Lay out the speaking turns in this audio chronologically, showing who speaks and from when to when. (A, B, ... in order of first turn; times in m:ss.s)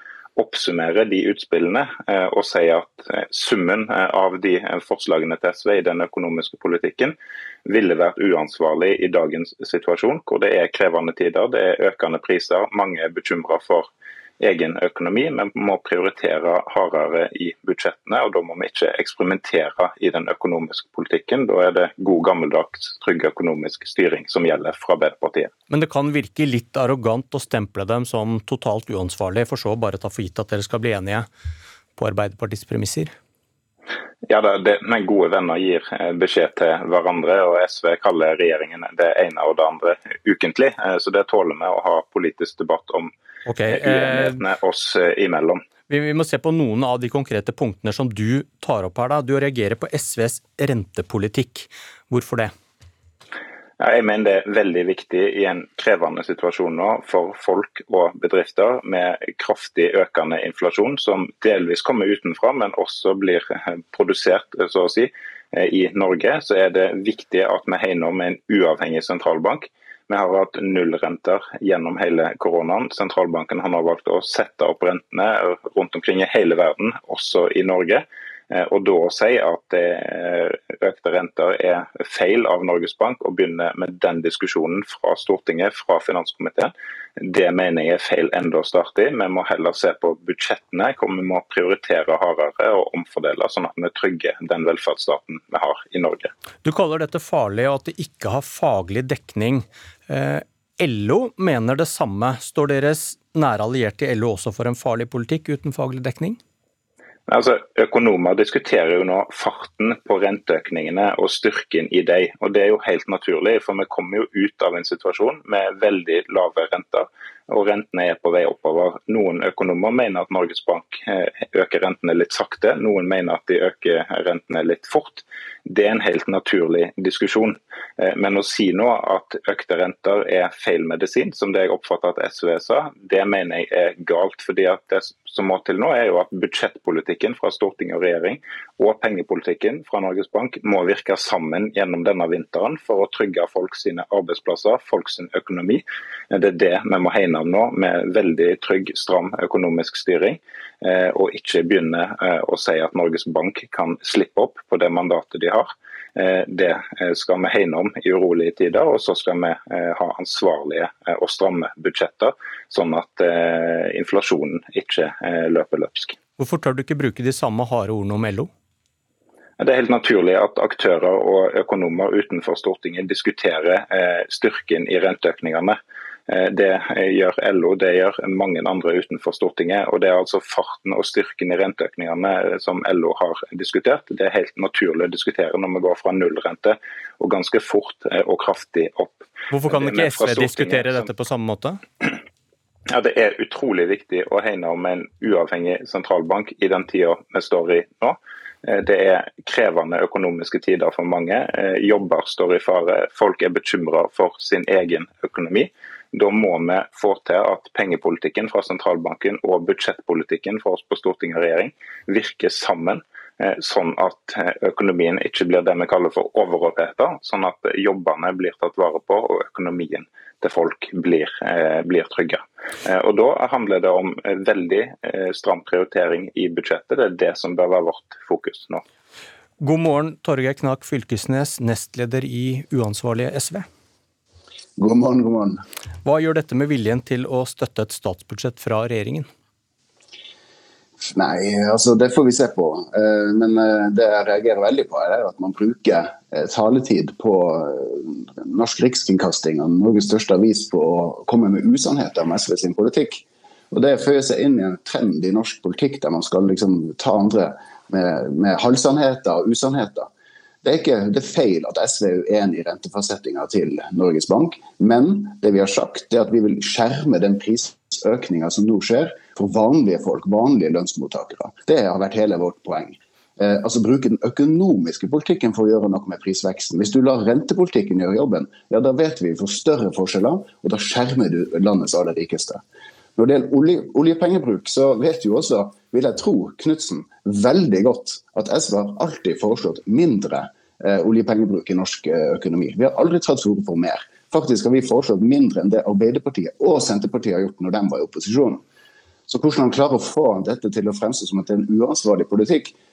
0:00.4-0:13.9 A
0:14.4-0:25.5 A
0:25.7-0:31.3 B
0:32.0-0:33.1 B
0:34.3-0:43.1 A
0:43.5-0:44.4 B
0:43.7-0:45.6 A
0:45.9-0:52.5 B
0:53.8-1:36.3 A
1:36.6-1:46.4 B
1:47.3-2:46.2 A
2:46.4-2:48.5 B
2:49.6-2:55.8 A
2:56.3-3:11.0 A
3:09.5-3:11.8 B
3:12.9-3:48.8 A
3:49.6-3:53.7 B
3:54.8-3:55.6 C
3:56.0-3:59.3 B
4:01.1-4:20.1 C
4:20.6-4:42.6 C
4:43.2-4:58.6 C
4:59.3-5:02.8 C